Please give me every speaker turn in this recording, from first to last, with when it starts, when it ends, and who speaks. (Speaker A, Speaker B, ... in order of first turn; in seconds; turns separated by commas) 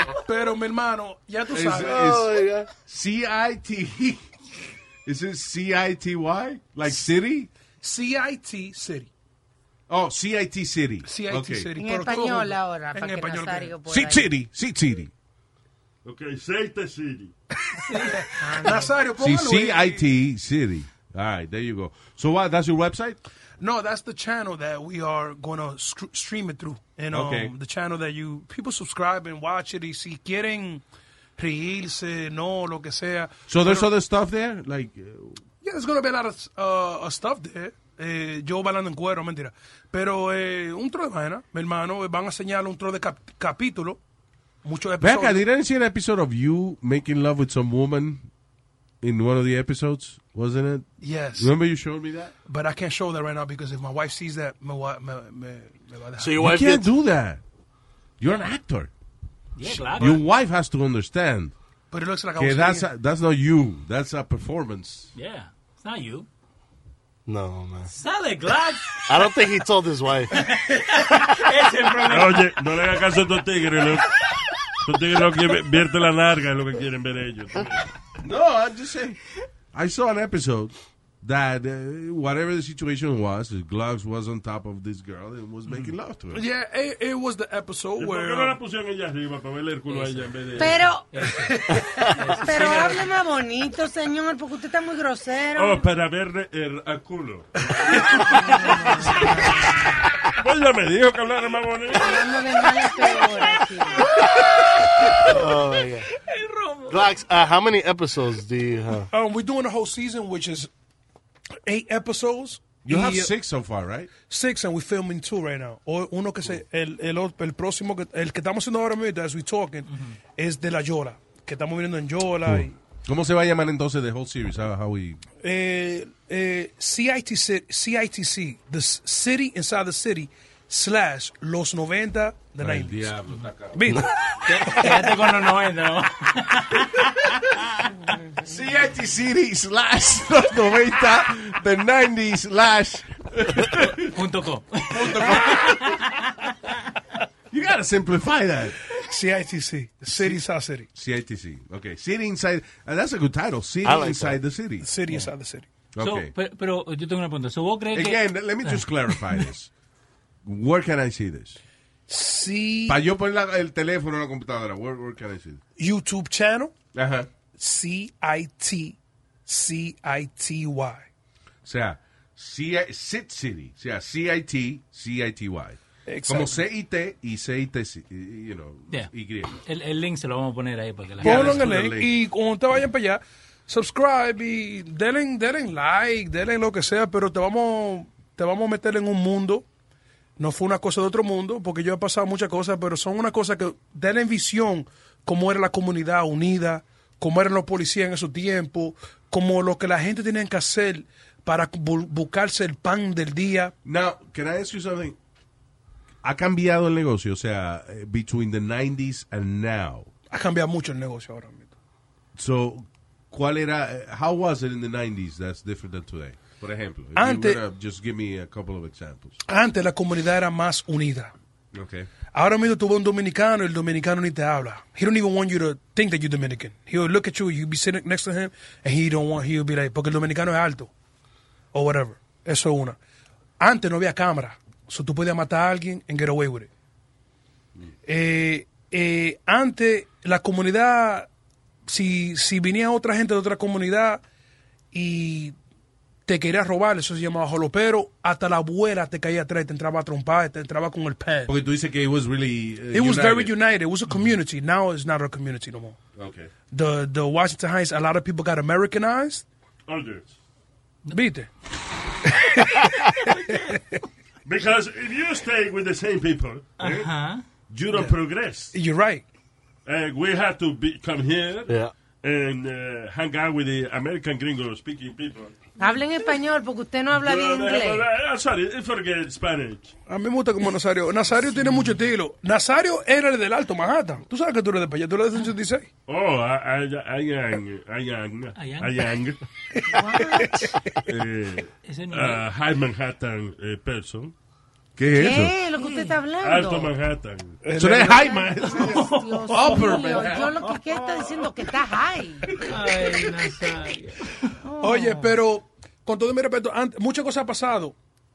Speaker A: 0.3-2.1, Speaker B: 1.5-2.4, Speaker C: 1.8-2.7, Speaker B: 2.9-4.3, Speaker B: 5.1-7.5, Speaker A: 7.8-9.1, Speaker B: 9.9-11.7, Speaker A: 11.0-13.8, Speaker D: 11.8-14.3, Speaker B: 13.9-15.1, Speaker E: 16.1-17.3, Speaker A: 17.7-20.0, Speaker F: 17.9-18.2, Speaker D: 18.4-19.0, Speaker B: 19.2-23.2, Speaker A: 23.6-30.8, Speaker B: 27.1-27.5, Speaker A: 31.4-33.9, Speaker B: 33.5-35.4, Speaker A: 35.6-44.0, Speaker A: 44.6-45.4, Speaker B: 45.0-48.3, Speaker B: 49.0-52.3, Speaker A: 51.0-51.5, Speaker A: 52.5-56.4, Speaker C: 56.2-56.9, Speaker B: 56.4-57.4, Speaker B: 58.2-58.9, Speaker F: 59.6-60.3, Speaker B: 59.7-61.5, Speaker A: 61.9-62.9, Speaker B: 62.4-65.1, Speaker F: 65.2-66.3, Speaker C: 67.3-67.9, Speaker F: 67.9-69.0, Speaker C: 69.1-70.3, Speaker F: 70.3-72.5, Speaker E: 72.1-74.1, Speaker E: 74.8-77.9, Speaker B: 78.2-79.2, Speaker B: 79.7-86.4, Speaker A: 86.3-88.6, Speaker E: 88.0-90.9, Speaker F: 89.9-93.1, Speaker D: 90.6-91.2, Speaker A: 91.5-91.8, Speaker D: 92.0-95.9, Speaker E: 95.5-102.3, Speaker A: 97.8-99.0, Speaker D: 98.7-99.5, Speaker D: 101.9-104.1, Speaker C: 104.5-106.1, Speaker F: 106.2-107.0, Speaker C: 106.9-109.1, Speaker A: 109.1-110.7, Speaker A: 111.7-113.3, Speaker B: 112.8-114.1, Speaker A: 114.3-122.8, Speaker B: 122.5-125.2, Speaker A: 125.4-133.2, Speaker B: 132.6-133.9, Speaker A: 133.7-134.2, Speaker F: 134.4-137.3, Speaker B: 138.4-144.1, Speaker F: 144.0-146.2, Speaker B: 144.9-146.0, Speaker B: 147.5-148.8, Speaker A: 148.9-150.9, Speaker B: 150.1-150.4, Speaker B: 150.9-154.9, Speaker C: 153.8-154.4, Speaker A: 154.8-155.7, Speaker B: 155.9-156.3, Speaker F: 156.0-159.4, Speaker B: 157.9-159.7, Speaker B: 160.4-161.6, Speaker A: 162.1-163.0, Speaker B: 162.9-165.6, Speaker A: 165.8-166.8, Speaker B: 166.9-167.3, Speaker A: 167.6-171.1, Speaker B: 171.7-179.6, Speaker A: 176.1-176.6, Speaker F: 179.6-181.7, Speaker A: 181.2-189.7, Speaker B: 181.2-182.1, Speaker A: 190.4-203.7, Speaker B: 203.8-205.2, Speaker B: 206.2-210.1, Speaker A: 210.3-211.7, Speaker B: 212.4-219.4, Speaker A: 217.2-217.6, Speaker A: 219.5-221.3, Speaker B: 221.7-222.1, Speaker A: 222.3-230.9, Speaker A: 231.7-233.0, Speaker A: 233.6-236.7, Speaker A: 238.1-241.3, Speaker A: 241.9-244.2, Speaker A: 244.9-245.6, Speaker A: 246.3-251.5, Speaker B: 251.5-253.6, Speaker A: 252.9-256.0, Speaker B: 256.2-256.5, Speaker A: 256.7-259.5, Speaker E: 259.9-260.4, Speaker A: 261.1-261.5, Speaker A: 262.3-262.9, Speaker F: 263.3-263.6, Speaker A: 263.5-263.8, Speaker E: 264.4-267.1, Speaker F: 266.8-267.4, Speaker E: 267.7-268.7, Speaker A: 268.7-269.2, Speaker E: 269.9-275.5, Speaker D: 275.8-278.1, Speaker E: 277.1-279.9, Speaker A: 280.1-285.9, Speaker E: 286.1-289.4, Speaker F: 288.6-288.9, Speaker A: 289.8-291.0, Speaker D: 289.9-290.8, Speaker E: 291.1-294.3, Speaker F: 291.9-292.4, Speaker B: 295.0-295.6, Speaker D: 295.1-296.9, Speaker F: 295.8-296.1, Speaker E: 296.4-297.6, Speaker A: 297.6-298.4, Speaker B: 297.7-301.2, Speaker D: 298.0-302.5, Speaker F: 298.7-300.0, Speaker F: 302.6-304.5, Speaker D: 304.6-305.3, Speaker A: 304.8-307.9